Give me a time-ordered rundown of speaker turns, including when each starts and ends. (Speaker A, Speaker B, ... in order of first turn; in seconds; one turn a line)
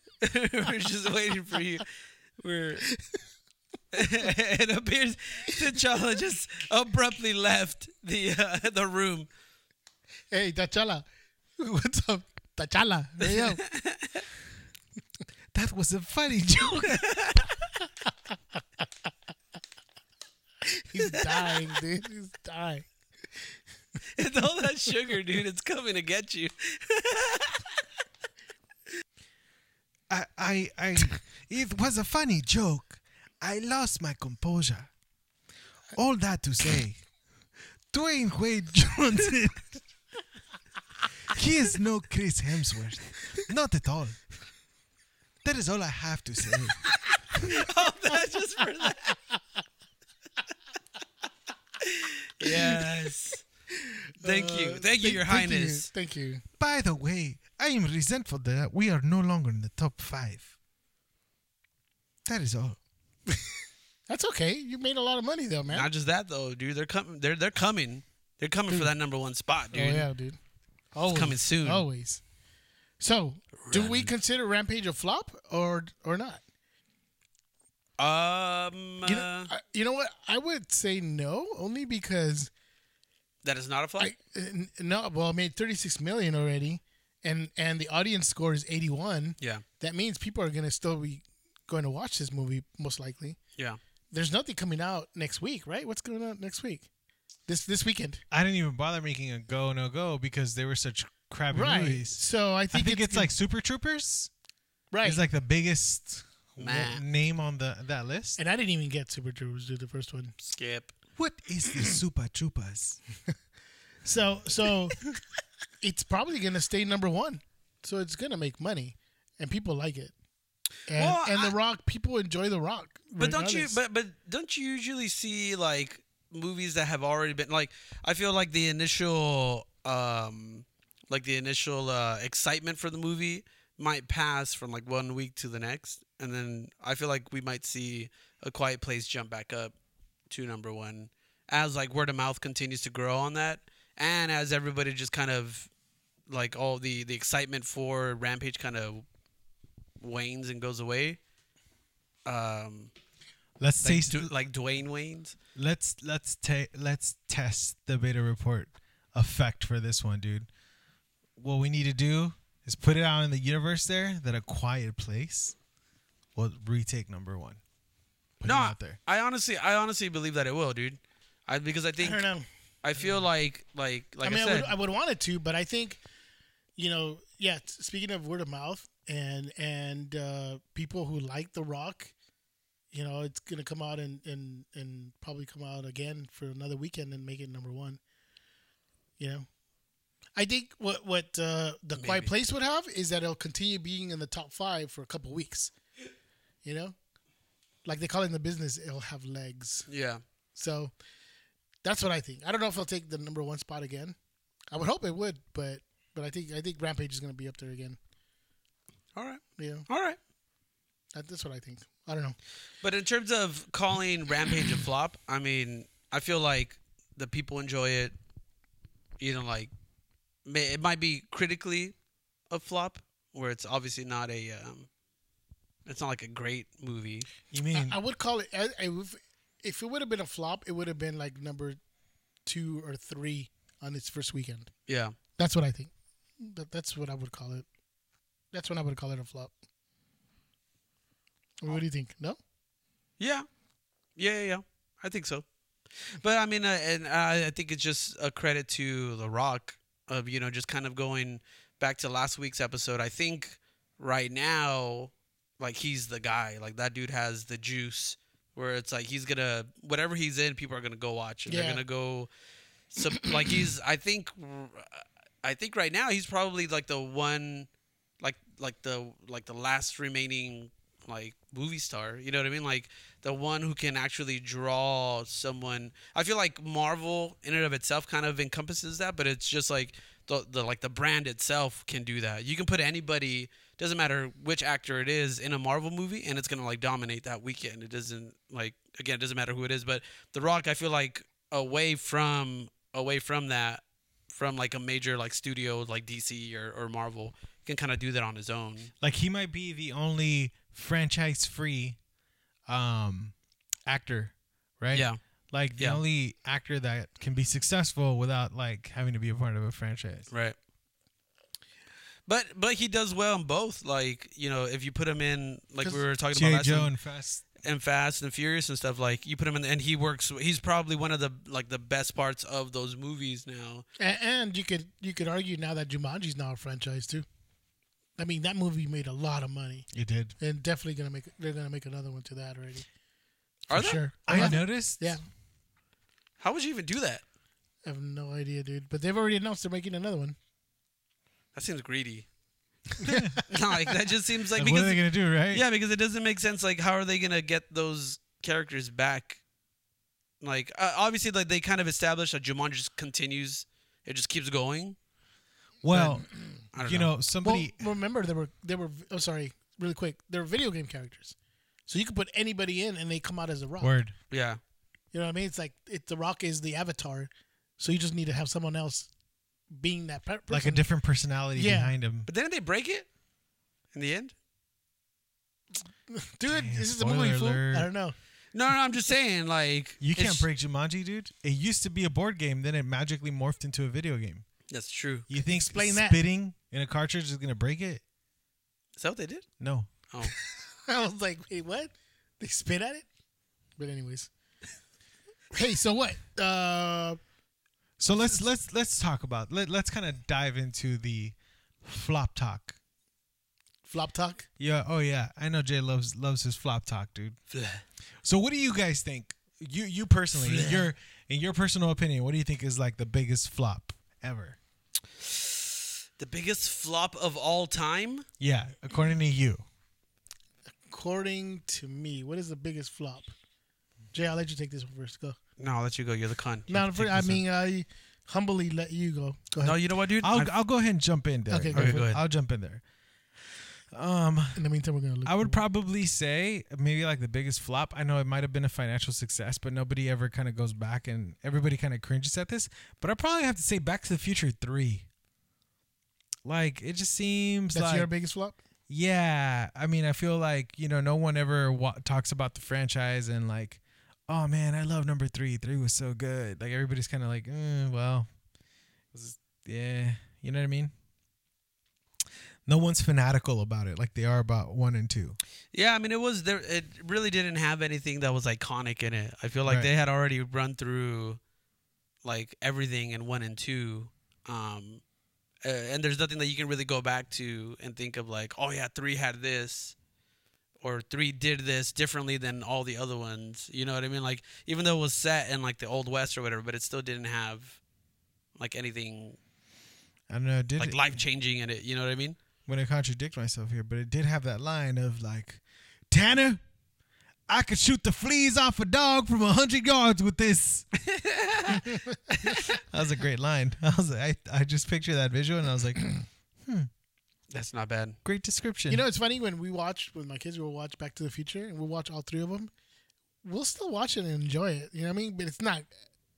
Speaker A: 0.2-2.9
Speaker A: 3.9-9.3
Speaker B: 10.3-11.1
Speaker B: 11.6-13.6
Speaker A: 13.2-14.2
Speaker C: 15.5-17.3
Speaker A: 16.9-17.5
Speaker B: 20.7-22.9
Speaker A: 21.1-21.6
Speaker A: 24.2-27.7
Speaker C: 30.1-34.9
Speaker C: 35.9-37.0
Speaker C: 37.9-39.8
Speaker C: 41.3-44.2
Speaker C: 45.4-47.5
Speaker A: 47.4-49.2
Speaker A: 51.8-53.4
Speaker B: 52.4-52.7
Speaker B: 53.8-56.4
Speaker A: 54.2-55.9
Speaker C: 56.6-60.5
Speaker C: 62.2-62.8
Speaker B: 64.1-65.9
Speaker A: 65.7-70.1
Speaker B: 69.7-70.4
Speaker B: 70.9-72.2
Speaker A: 71.1-71.9
Speaker B: 73.0-76.4
Speaker A: 73.6-74.1
Speaker A: 78.0-79.5
Speaker B: 79.0-82.5
Speaker A: 83.4-84.1
Speaker B: 84.0-93.4
Speaker B: 94.1-96.9
Speaker B: 97.5-98.2
Speaker C: 98.3-104.3
Speaker B: 101.5-103.3
Speaker B: 104.9-105.2
Speaker C: 105.0-108.4
Speaker A: 106.6-107.0
Speaker B: 108.4-110.4
Speaker A: 110.4-110.9
Speaker C: 111.2-113.0
Speaker B: 114.0-115.0
Speaker B: 115.8-120.1
Speaker B: 120.9-123.8
Speaker A: 121.0-121.5
Speaker A: 123.2-139.7
Speaker A: 140.3-145.7
Speaker A: 146.3-149.1
Speaker A: 150.0-151.2
Speaker A: 152.3-152.9
Speaker C: 153.6-154.3
Speaker A: 153.8-155.4
Speaker C: 155.6-160.5
Speaker C: 161.4-165.6
Speaker C: 166.4-167.6
Speaker C: 168.4-169.0
Speaker A: 168.4-172.2
Speaker B: 172.0-172.5
Speaker A: 172.8-174.7
Speaker B: 174.2-176.0
Speaker B: 176.8-182.1
Speaker B: 182.9-188.0
Speaker B: 189.2-189.5
Speaker B: 190.4-195.7
Speaker A: 192.0-192.3
Speaker B: 196.6-197.0
Speaker B: 197.8-199.9
Speaker A: 199.9-200.2
Speaker B: 200.6-200.9
Speaker B: 201.8-204.2
Speaker B: 204.7-208.0
Speaker A: 209.2-210.2
Speaker B: 209.6-209.9
Speaker B: 211.1-212.4
Speaker A: 212.8-218.2
Speaker A: 219.2-219.7
Speaker A: 220.4-221.9
Speaker A: 222.5-224.9
Speaker A: 225.9-227.3
Speaker C: 227.5-228.0
Speaker B: 227.7-231.8
Speaker B: 232.4-234.7
Speaker A: 234.9-235.2
Speaker B: 235.4-237.7
Speaker B: 238.5-239.5
Speaker B: 241.6-242.4
Speaker A: 243.2-243.5
Speaker A: 244.2-245.4
Speaker A: 246.1-262.3
Speaker B: 261.5-261.8
Speaker A: 262.9-267.7
Speaker A: 268.2-298.9
Speaker C: 299.0-302.0
Speaker C: 302.7-303.3
Speaker C: 303.9-310.3
Speaker A: 304.9-305.2
Speaker A: 310.3-310.6
Speaker A: 312.3-316.9
Speaker C: 316.3-317.4
Speaker A: 317.6-323.9
Speaker B: 324.0-327.3
Speaker B: 328.2-329.9
Speaker C: 329.9-330.4
Speaker B: 330.4-332.9
Speaker A: 333.7-334.6
Speaker B: 333.7-335.2
Speaker C: 334.2-335.2
Speaker A: 336.4-337.2
Speaker B: 337.9-340.4
Speaker A: 341.6-342.3
Speaker C: 343.0-343.4
Speaker A: 343.5-349.4
Speaker C: 344.6-345.6
Speaker A: 350.4-355.0
Speaker C: 355.8-357.9
Speaker A: 355.9-356.2
Speaker A: 356.7-357.1
Speaker B: 357.4-361.4
Speaker B: 361.9-364.0
Speaker C: 363.8-364.1
Speaker A: 364.3-364.6
Speaker B: 365.1-369.1
Speaker B: 369.7-370.9
Speaker C: 370.5-372.3
Speaker B: 371.6-371.9
Speaker A: 372.3-373.1
Speaker A: 373.9-374.3
Speaker B: 376.1-378.1
Speaker C: 376.5-377.9
Speaker A: 378.5-380.5
Speaker C: 380.0-384.5
Speaker A: 384.7-385.3
Speaker C: 385.3-388.0
Speaker B: 385.4-386.2
Speaker A: 389.0-389.5
Speaker C: 389.6-389.9
Speaker B: 390.3-393.1
Speaker B: 393.8-394.3
Speaker B: 395.5-397.2
Speaker C: 398.0-402.8
Speaker B: 403.9-404.5
Speaker C: 404.6-407.4
Speaker A: 407.5-407.8
Speaker C: 408.2-414.6
Speaker A: 410.3-410.9
Speaker A: 415.2-418.3
Speaker C: 418.4-419.6
Speaker B: 420.9-423.3
Speaker B: 424.1-425.4
Speaker A: 425.6-427.4
Speaker B: 426.7-429.8
Speaker A: 429.6-430.5
Speaker C: 430.2-432.8
Speaker B: 431.5-432.0
Speaker A: 431.7-432.2
Speaker C: 433.5-434.6
Speaker B: 434.6-435.6
Speaker C: 435.2-445.1
Speaker C: 446.4-448.1
Speaker B: 447.7-448.6
Speaker C: 448.9-458.3
Speaker C: 459.1-460.9
Speaker C: 462.7-465.4
Speaker A: 465.7-471.4
Speaker A: 472.2-475.0
Speaker A: 475.6-479.9
Speaker A: 480.8-487.8
Speaker A: 488.6-489.4
Speaker C: 490.3-491.2
Speaker A: 490.8-492.4
Speaker C: 492.7-496.6
Speaker C: 497.5-500.9
Speaker A: 501.0-502.8
Speaker C: 502.7-506.9
Speaker A: 507.5-508.2
Speaker C: 508.2-509.0
Speaker B: 508.9-512.7
Speaker B: 513.4-515.9